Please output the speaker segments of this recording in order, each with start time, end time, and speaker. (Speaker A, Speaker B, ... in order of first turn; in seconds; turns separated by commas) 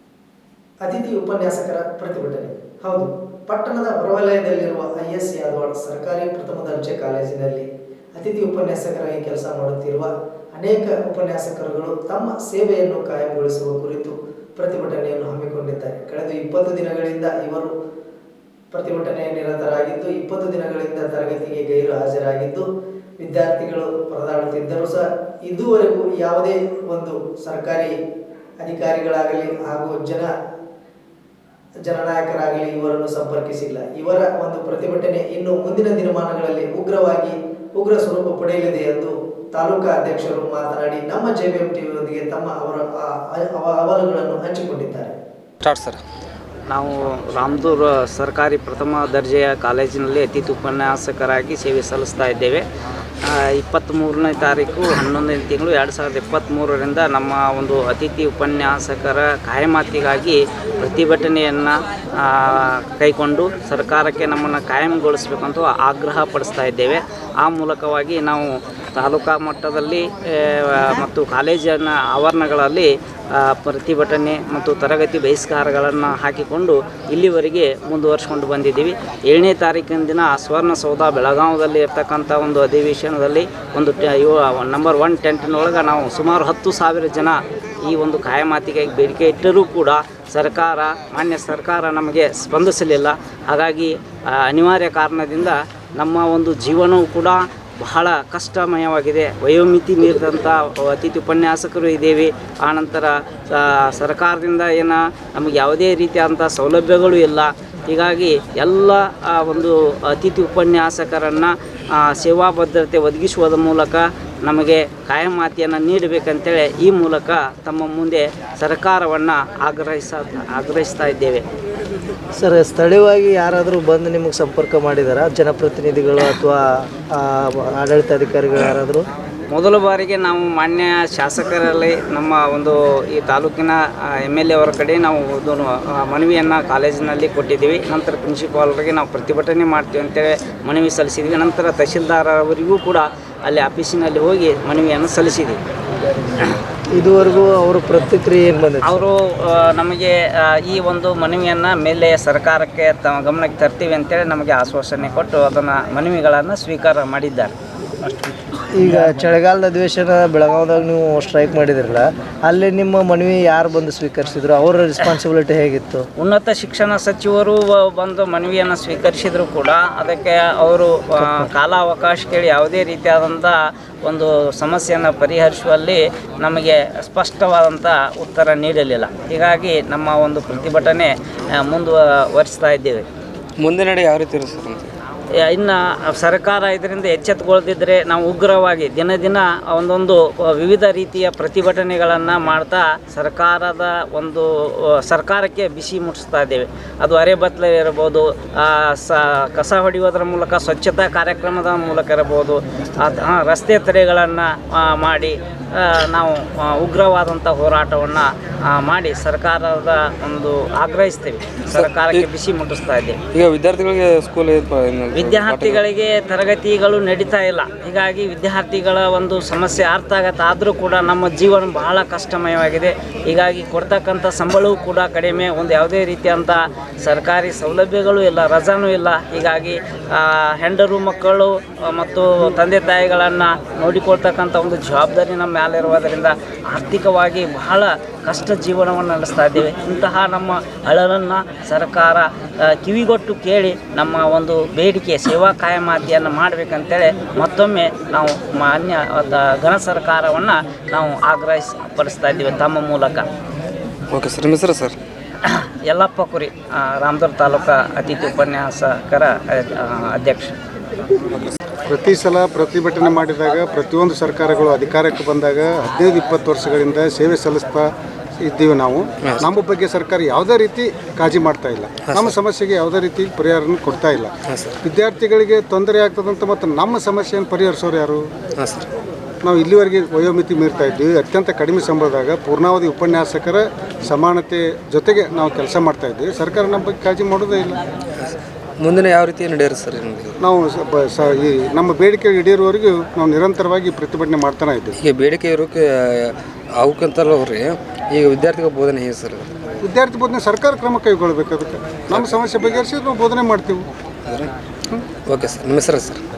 Speaker A: 0.8-17.7, Speaker A: 18.7-22.7, Speaker A: 23.2-27.9, Speaker A: 28.6-30.3, Speaker A: 31.9-45.1, Speaker B: 45.6-46.0, Speaker C: 46.7-52.6, Speaker C: 53.2-121.4, Speaker A: 122.3-126.6, Speaker A: 127.2-129.0, Speaker C: 129.5-145.6, Speaker A: 146.9-149.0, Speaker C: 148.8-157.5, Speaker A: 158.7-166.1, Speaker C: 166.2-183.1, Speaker B: 183.6-184.9, Speaker C: 185.4-213.2, Speaker B: 211.7-212.3, Speaker B: 213.3-215.8, Speaker C: 215.1-253.2, Speaker B: 254.1-255.0, Speaker C: 255.4-260.6, Speaker D: 261.9-278.3, Speaker B: 272.1-272.3, Speaker B: 274.4-274.8, Speaker B: 278.6-278.9, Speaker D: 279.4-287.8, Speaker B: 288.1-290.4, Speaker D: 290.4-295.0, Speaker B: 295.0-299.5, Speaker D: 299.8-303.8, Speaker B: 302.1-302.4, Speaker B: 304.2-304.5, Speaker B: 305.1-306.2